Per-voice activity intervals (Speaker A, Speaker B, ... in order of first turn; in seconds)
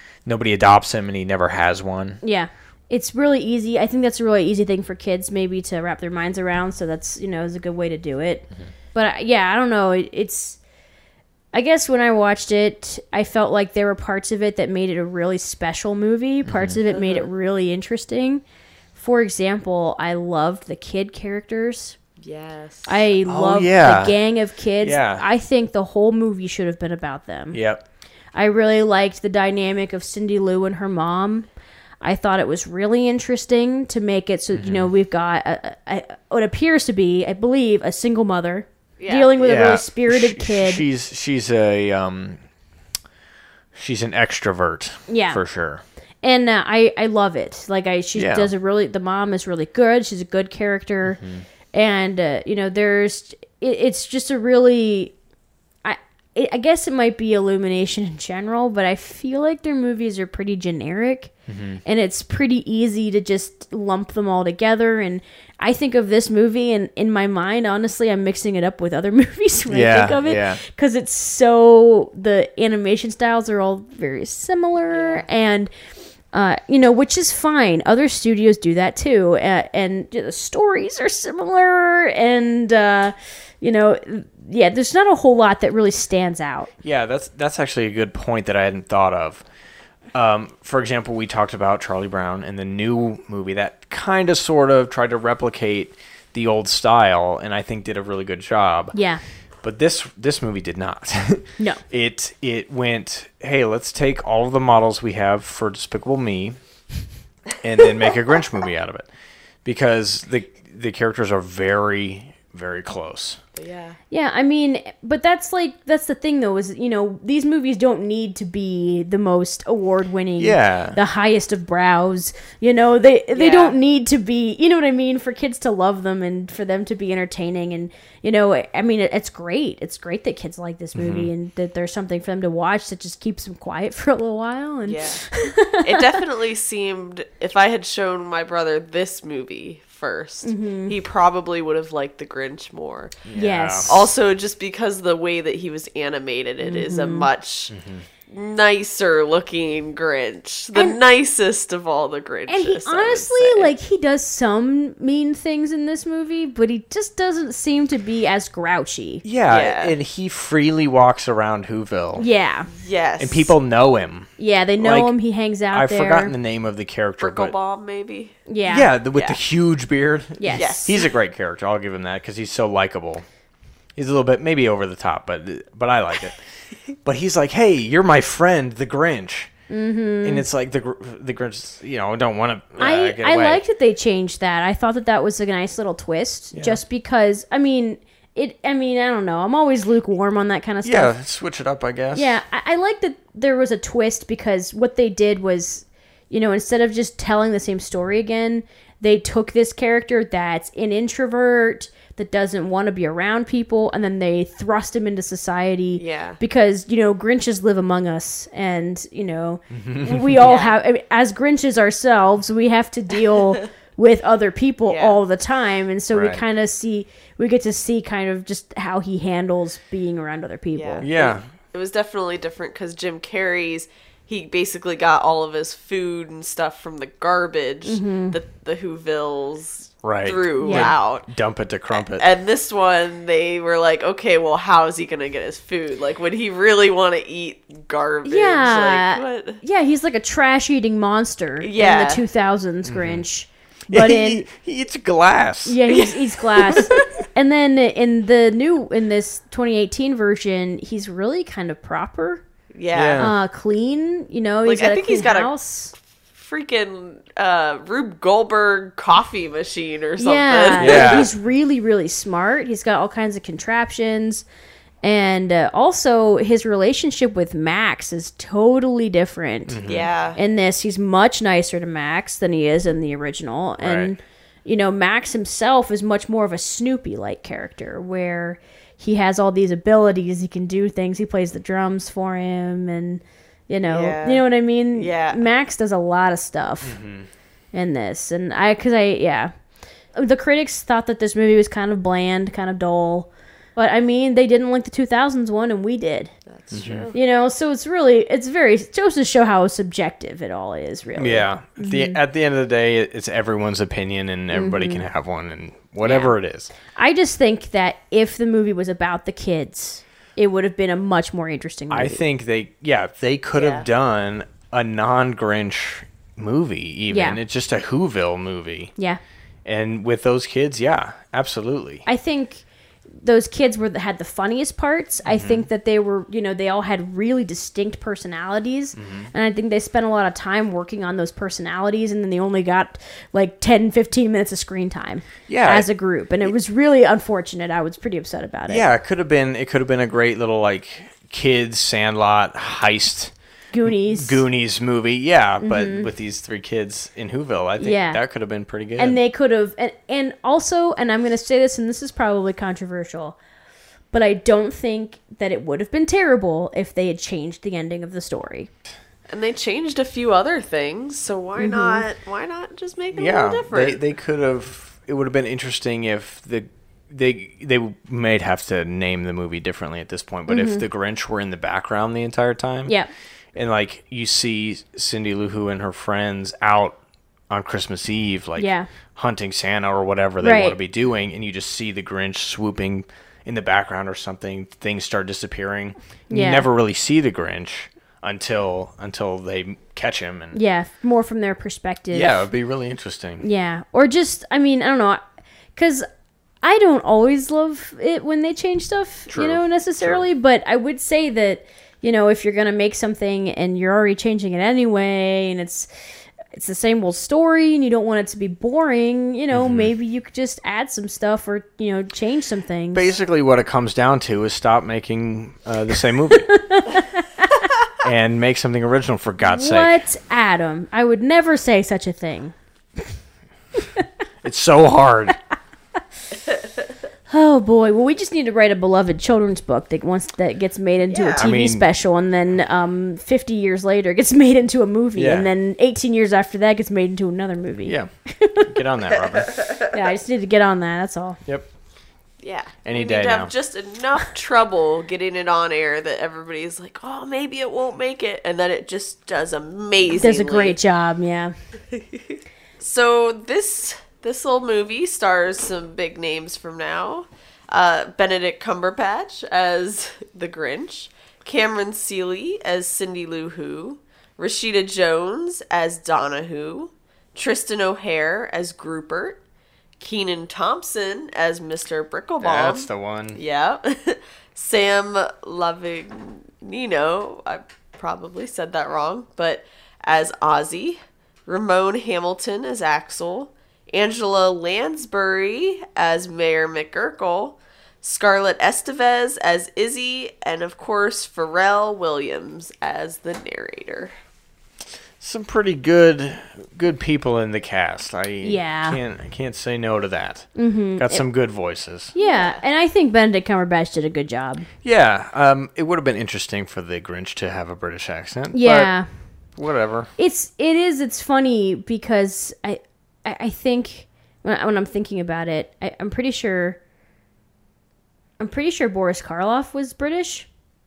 Speaker A: 0.2-2.2, 16.4-16.8, 23.2-24.2, 24.8-25.2, 27.5-27.8, 34.5-34.9, 39.4-42.4, 43.7-45.8, 48.1-48.5, 51.0-51.5, 61.5-61.8, 69.7-70.6, 86.8-89.4, 90.1-99.0, 99.6-106.6, 107.6-109.1, 109.6-113.4, 120.4-121.0, 130.9-131.3, 143.2-144.0, 147.7-148.1, 159.2-162.3, 163.2-165.1, 165.7-167.5, 168.6-173.2, 173.9-179.5, 180.2-183.6, 186.5-186.8, 190.8-192.4, 209.7-210.4, 216.1-216.4, 221.0-221.5, 230.0-232.3, 242.9-243.2, 243.9-245.8, 252.9-253.3, 260.8-261.3, 269.7-270.1, 273.8-274.1, 286.8-287.3, 296.7-297.1, 301.2-306.7, 311.9-318.9, 319.6-322.0, 325.2-325.6, 328.9-329.3, 335.5-335.9, 338.7-349.2, 363.1-372.9, 373.5-390.6, 392.1-393.4, 399.3-400.2, 409.5-409.9, 412.9-416.5, 418.0-420.0, 424.4-425.4, 431.4-431.8, 435.1-435.5, 437.9-439.5, 442.8-443.5, 472.4-473.4, 495.2-502.1, 504.8-510.1
Speaker B: 2.2-10.6, 11.5-18.4, 18.9-22.0, 22.9-27.6, 28.3-31.5, 32.0-40.8, 45.1-45.4, 46.2-51.2, 51.7-55.1, 55.8-61.3, 61.8-75.7, 76.3-86.7, 98.9-99.2, 114.1-135.9, 140.4-140.9, 143.3-144.0, 146.6-147.3, 152.5-159.2, 162.2-162.7, 164.4-166.3, 168.5-168.9, 170.4-170.9, 179.7-180.4, 182.8-191.1, 192.1-221.1, 227.8-228.4, 230.6-230.9, 238.2-244.4, 245.7-252.4, 253.2-255.9, 260.2-264.4, 265.0-269.8, 270.3-287.0, 287.7-289.5, 290.1-296.3, 297.1-302.2, 304.5-305.1, 306.0-306.3, 306.9-312.2, 317.1-317.4, 322.1-322.6, 323.2-338.8, 343.7-344.4, 345.6-346.1, 347.8-348.2, 349.0-353.4, 354.1-358.7, 361.6-362.0, 370.5-370.8, 378.6-378.9, 380.4-380.8, 386.3-386.7, 390.5-392.4, 393.4-395.2, 395.8-396.0, 396.6-405.9, 406.5-413.1, 416.5-417.5, 419.4-422.5, 427.3-438.7, 439.9-441.4, 450.1-451.5, 498.4-499.0, 500.5-501.2, 502.1-504.7, 508.5-509.2, 510.2-516.8, 518.4-520.5
Speaker C: 16.9-17.3, 22.2-23.0, 39.0-39.3, 74.9-75.2, 113.5-114.0, 123.3-123.8, 134.8-135.2, 135.8-143.2, 143.8-147.7, 148.3-153.7, 159.5-159.9, 162.7-163.6, 167.2-168.4, 170.5-171.0, 205.9-206.4, 210.4-210.8, 214.8-215.2, 220.7-231.3, 231.9-239.6, 241.6-242.2, 245.9-247.1, 252.7-253.3, 254.6-255.5, 256.3-261.3, 269.9-270.4, 283.9-285.4, 296.5-297.1, 313.6-313.9, 359.3-364.0, 431.1-431.5, 439.6-439.9, 442.4-450.8, 451.9-469.4, 470.0-494.1, 502.2-502.6